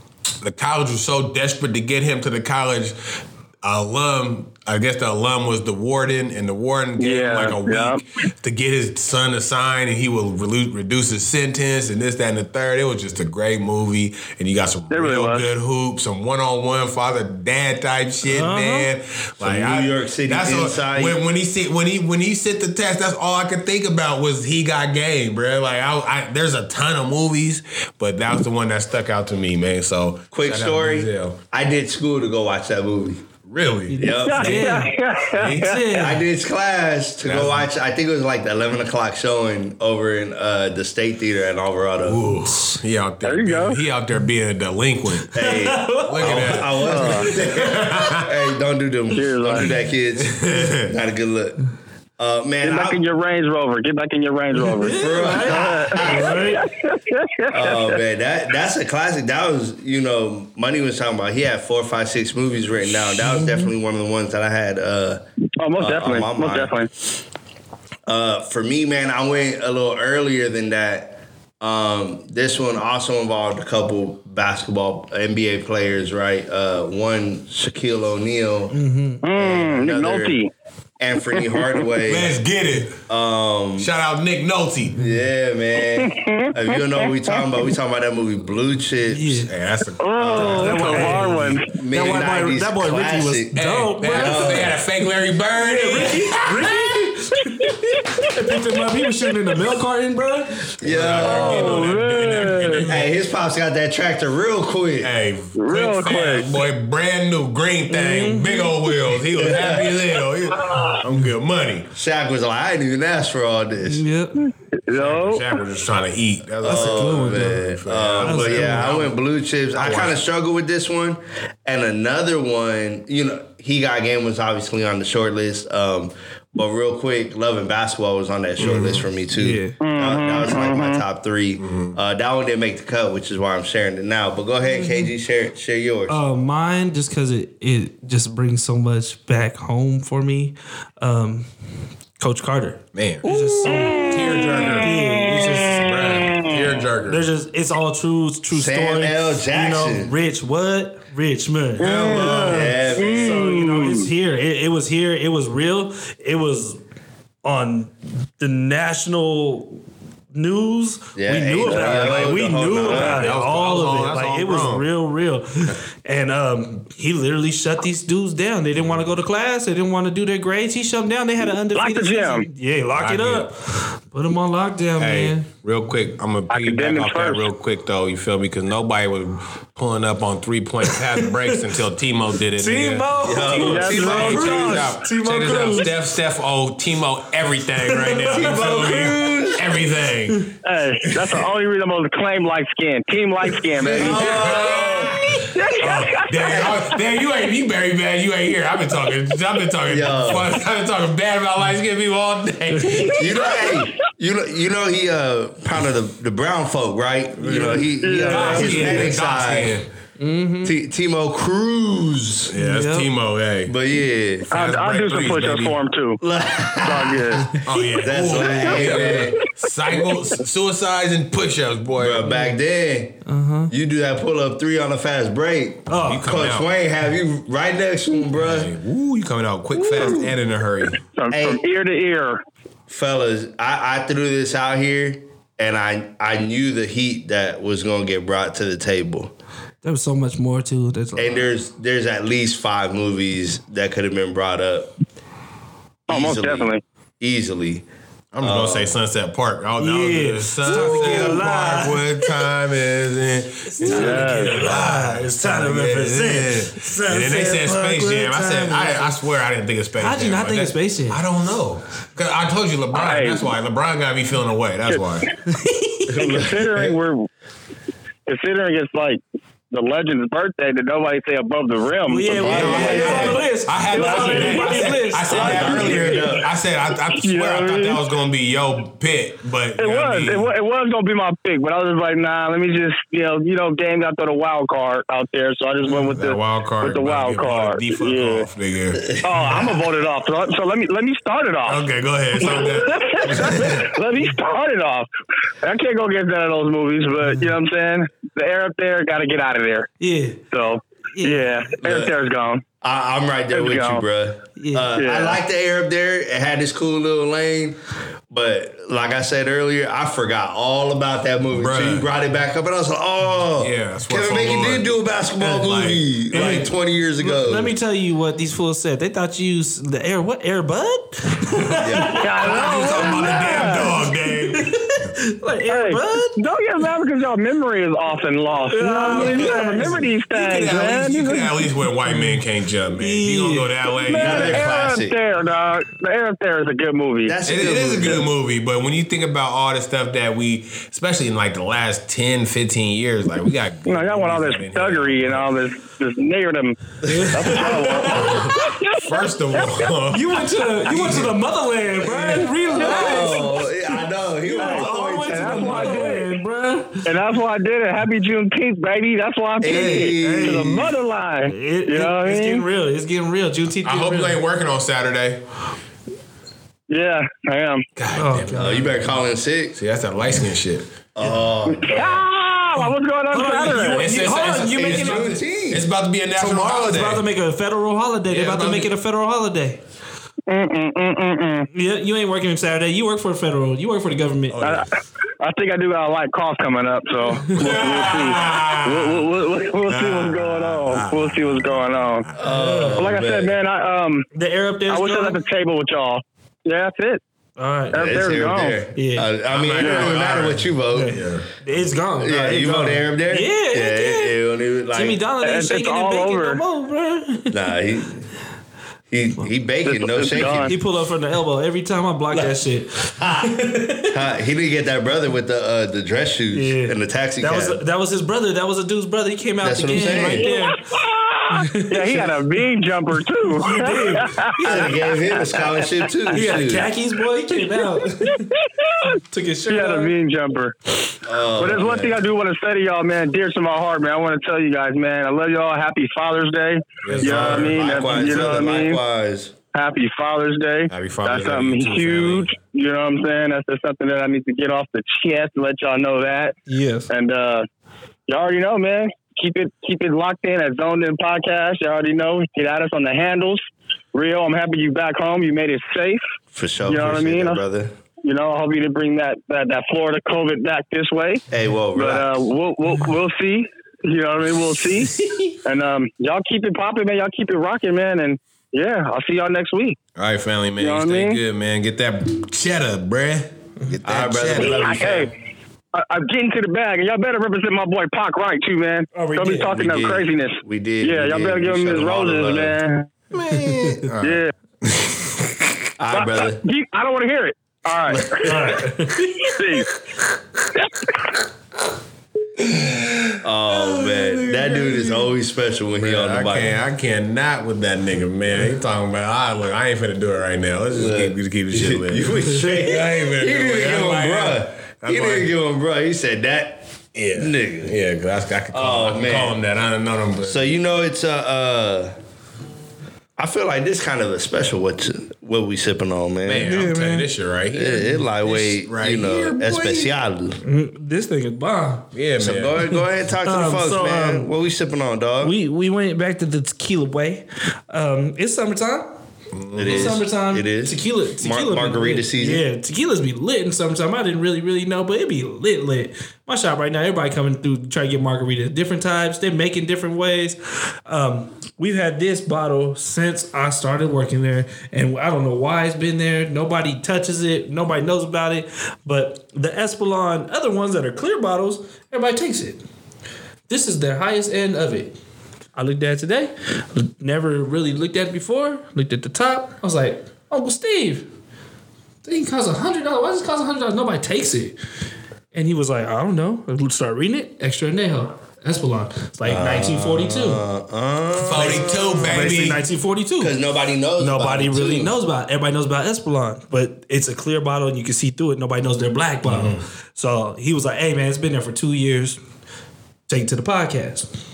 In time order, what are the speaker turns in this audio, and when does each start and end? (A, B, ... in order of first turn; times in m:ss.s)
0:00.4-0:31.4 A
0:07.0-0:08.0 B
0:14.9-0:15.4 B
0:18.2-0:18.9 C
0:19.4-0:21.2 D
0:30.3-0:33.2 D
0:33.5-0:34.7 A
0:33.9-0:36.2 C
0:34.0-0:34.7 D
0:34.2-0:36.1 B
0:35.3-0:35.7 A
0:35.9-0:42.2 D
0:37.2-0:37.7 A
0:42.0-0:45.4 A
0:43.2-0:43.8 B
0:45.3-0:51.6 D
0:45.3-0:46.6 C
0:46.1-0:48.4 A
0:46.9-0:47.3 B
0:49.1-0:49.7 B
0:50.2-0:51.0 A
0:52.2-0:53.0 D
0:52.6-0:58.0 B
0:54.6-0:56.6 C
0:54.8-0:56.6 D
0:57.5-1:05.2 D
1:03.2-1:03.7 C
1:05.6-1:06.9 B
1:05.8-1:06.7 D
1:08.1-1:18.8 D
1:18.7-1:19.2 C
1:19.2-1:20.5 B
1:19.3-1:20.4 D
1:21.0-1:22.3 D
1:21.3-1:21.8 B
1:22.1-1:23.0 A
1:23.1-1:23.9 D
1:23.8-1:25.1 A
1:25.0-1:29.4 D
1:25.9-1:27.6 B
1:29.1-1:29.5 C
1:29.5-1:31.6 A
1:30.0-1:31.7 B
1:30.2-1:31.0 D
1:30.4-1:31.3 C
1:31.7-1:33.5 D
1:31.9-1:34.7 C
1:33.6-1:36.9 A
1:34.1-1:34.8 D
1:35.6-1:40.7 C
1:40.8-1:41.9 D
1:40.8-1:43.1 A
1:41.2-1:42.9 B
1:42.9-1:45.1 D
1:45.0-1:51.9 A
1:45.6-1:46.5 B
1:47.9-1:48.8 C
1:49.4-1:50.0 D
1:50.7-1:51.0 B
1:51.9-1:54.0 D
1:53.8-1:54.5 C
1:54.7-1:55.5 B
1:54.9-1:59.2 A
1:56.6-2:16.2 D
1:56.6-1:57.6 C
1:58.2-1:59.0 C
1:59.8-2:00.2 A
2:08.6-2:09.0 A
2:09.4-2:09.8 C
2:09.8-2:11.0 B
2:11.6-2:12.0 A
2:14.7-2:15.1 C
2:16.1-2:21.5 C
2:22.2-2:24.2 C
2:22.9-2:25.0 A
2:23.6-2:26.6 B
2:24.8-2:25.9 C
2:25.6-2:27.2 A
2:27.1-2:36.8 C
2:28.5-2:30.1 D
2:31.8-2:33.5 D
2:31.8-2:34.1 B
2:37.4-2:39.8 C
2:40.3-2:55.5 C
2:41.2-2:43.3 D
2:42.8-2:44.9 A
2:51.8-2:52.5 B
2:53.0-2:53.5 A
2:55.0-3:10.5 A
2:56.5-2:57.4 B
3:00.9-3:01.6 C
3:02.6-3:06.0 C
3:03.2-3:04.9 D
3:03.6-3:04.8 B
3:07.9-3:09.1 C
3:08.3-3:09.8 D
3:10.6-3:14.7 B
3:11.1-3:11.4 A
3:13.8-3:15.3 D
3:13.8-3:23.3 A
3:15.4-3:16.8 B
3:16.4-3:16.8 D
3:19.9-3:20.6 D
3:22.9-3:23.8 B
3:23.1-3:29.8 D
3:27.4-3:29.9 A
3:27.5-3:28.8 C
3:28.0-3:29.0 B
3:30.2-3:30.8 C
3:30.6-3:32.5 D
3:32.5-3:33.7 A
3:32.6-3:33.1 C
3:33.7-3:34.5 D
3:34.5-3:35.8 A
3:34.5-3:36.2 B
3:36.2-3:39.4 D
3:36.8-3:37.6 B
3:37.6-3:42.3 A
3:38.4-3:39.2 B
3:42.0-3:43.2 D
3:42.3-3:42.5 C
3:43.3-3:43.7 C
3:43.7-3:48.7 D
3:45.9-3:46.4 C
3:46.1-3:46.7 A
3:48.4-3:51.0 A
3:49.8-3:50.3 D
3:50.0-3:50.2 B
3:51.0-3:52.4 B
3:51.3-3:51.6 D
3:52.9-3:59.3 D
3:59.8-4:01.5 C
4:01.2-4:04.9 D
4:06.1-4:06.8 B
4:06.1-4:07.8 D
4:08.3-4:25.3 A
4:08.4-4:08.9 D
4:09.8-4:12.3 C
4:10.7-4:11.4 D
4:13.6-4:19.1 C
4:13.8-4:14.8 B
4:20.0-4:21.2 C
4:22.9-4:23.5 B
4:25.5-4:26.4 C
4:26.1-4:27.0 D
4:26.1-4:27.3 B
4:28.3-4:34.9 B
4:32.1-4:36.0 C
4:32.3-4:33.4 D
4:32.4-4:40.5 A
4:35.2-4:36.5 D
4:35.9-4:36.2 B
4:37.1-4:38.0 B
4:39.8-4:48.5 B
4:45.8-4:49.2 A
4:49.2-4:51.8 B
4:51.7-4:53.9 A
4:52.4-4:55.1 B
4:55.6-4:59.9 B
4:57.2-4:57.5 C
5:00.0-5:00.4 C
5:00.5-5:02.6 B
5:01.1-5:01.7 C
5:01.8-5:02.1 D
5:02.8-5:07.8 D
5:03.5-5:04.0 B
5:04.6-5:04.9 C
5:04.9-5:05.4 B
5:08.3-5:17.7 D
5:11.5-5:12.1 A
5:13.6-5:16.7 A
5:16.4-5:16.6 C
5:17.2-5:23.9 C
5:21.8-5:22.3 D
5:22.2-5:23.9 B
5:22.4-5:24.8 A
5:24.5-5:26.4 C
5:25.7-5:31.5 B
5:28.7-5:30.0 C
5:29.2-5:34.7 A
5:32.1-5:32.4 C
5:33.0-5:33.8 C
5:34.1-5:37.4 B
5:34.1-5:35.2 D
5:37.2-5:38.3 D
5:37.5-5:45.6 A
5:43.9-5:49.9 B
5:47.1-5:48.6 C
5:48.1-5:51.4 A
5:50.1-5:57.1 C
5:52.1-5:56.2 D
5:52.4-5:53.3 B
5:54.6-5:56.3 B
5:57.0-6:02.6 B
5:59.6-6:00.9 D
5:59.7-6:00.8 C
6:01.5-6:04.4 C
6:03.8-6:05.4 A
6:06.9-6:07.8 B
6:08.0-6:09.1 A
6:08.2-6:09.1 C
6:08.6-6:09.8 D
6:09.8-6:11.4 A
6:11.2-6:12.2 D
6:11.7-6:14.0 B
6:13.3-6:15.4 C
6:13.9-6:17.2 A
6:14.7-6:15.8 D
6:16.4-6:19.8 C
6:18.3-6:18.9 A
6:20.5-6:21.7 B
6:21.7-6:24.7 C
6:24.5-6:24.9 A
6:25.4-6:32.3 B
6:27.5-6:32.4 A
6:32.4-6:33.5 D
6:32.4-6:33.1 C
6:33.0-6:34.3 B
6:34.3-6:35.4 C
6:34.9-6:37.2 B
6:37.6-6:38.1 C
6:37.9-6:38.8 B
6:37.9-6:41.2 D
6:39.0-6:39.3 C
6:39.5-6:41.5 A
6:39.8-6:40.1 B
6:40.9-6:44.4 C
6:42.2-6:45.2 D
6:44.9-6:47.6 C
6:45.4-6:46.6 B
6:47.5-6:48.3 D
6:49.1-6:50.8 D
6:49.8-6:50.7 B
6:50.7-6:54.2 C
6:53.2-6:57.8 D
6:56.5-7:00.8 C
6:59.6-7:00.5 D
6:59.9-7:05.8 B
7:01.5-7:02.4 C
7:03.4-7:04.9 C
7:04.6-7:06.9 D
7:06.3-7:08.6 C
7:08.3-7:09.1 B
7:09.1-7:10.1 C
7:09.7-7:10.8 B
7:11.2-7:12.2 D
7:11.6-7:19.0 B
7:17.0-7:18.5 A
7:17.2-7:19.5 D
7:19.7-7:26.6 B
7:20.9-7:22.5 A
7:26.7-7:27.1 C
7:27.1-7:27.7 B
7:28.3-7:33.6 B
7:34.1-7:36.2 B
7:36.5-7:37.9 D
7:36.8-7:37.6 B
7:38.2-7:41.4 B
7:41.5-7:42.4 D
7:42.0-7:50.0 B
7:50.2-7:55.0 A
7:50.8-7:51.4 B
7:54.0-7:55.3 D
7:54.6-7:55.3 B
7:55.9-8:03.1 B
7:59.1-7:59.7 C
7:59.6-8:02.8 D
8:03.3-8:05.3 A
8:03.5-8:04.0 C
8:04.2-8:04.5 B
8:06.0-8:06.6 D
8:06.1-8:08.8 B
8:08.1-8:08.4 D
8:08.4-8:09.5 C
8:09.4-8:09.9 B
8:10.8-8:11.1 B
8:12.6-8:15.3 A
8:13.4-8:16.8 D
8:15.9-8:25.5 A
8:20.9-8:28.0 D
8:27.2-8:30.7 A
8:28.7-8:29.6 D
8:30.4-8:32.1 D
8:33.4-8:36.7 D
8:36.4-8:40.1 A
8:36.6-8:37.3 C
8:37.7-8:40.6 D
8:40.6-8:42.1 C
8:42.1-8:42.9 A
8:42.4-8:45.6 D
8:42.9-8:44.5 C
8:45.4-8:49.1 C
8:49.5-8:50.2 A
8:49.8-8:52.6 D
8:49.8-9:12.8 C
9:13.7-9:15.2 C
9:15.8-9:21.3 C
9:22.2-9:24.8 C
9:25.5-9:30.6 C
9:29.4-9:32.5 D
9:31.4-9:32.8 A
9:31.6-9:33.6 C
9:33.4-9:35.2 D
9:34.2-9:42.4 C
9:39.4-9:39.8 A
9:43.3-9:44.3 C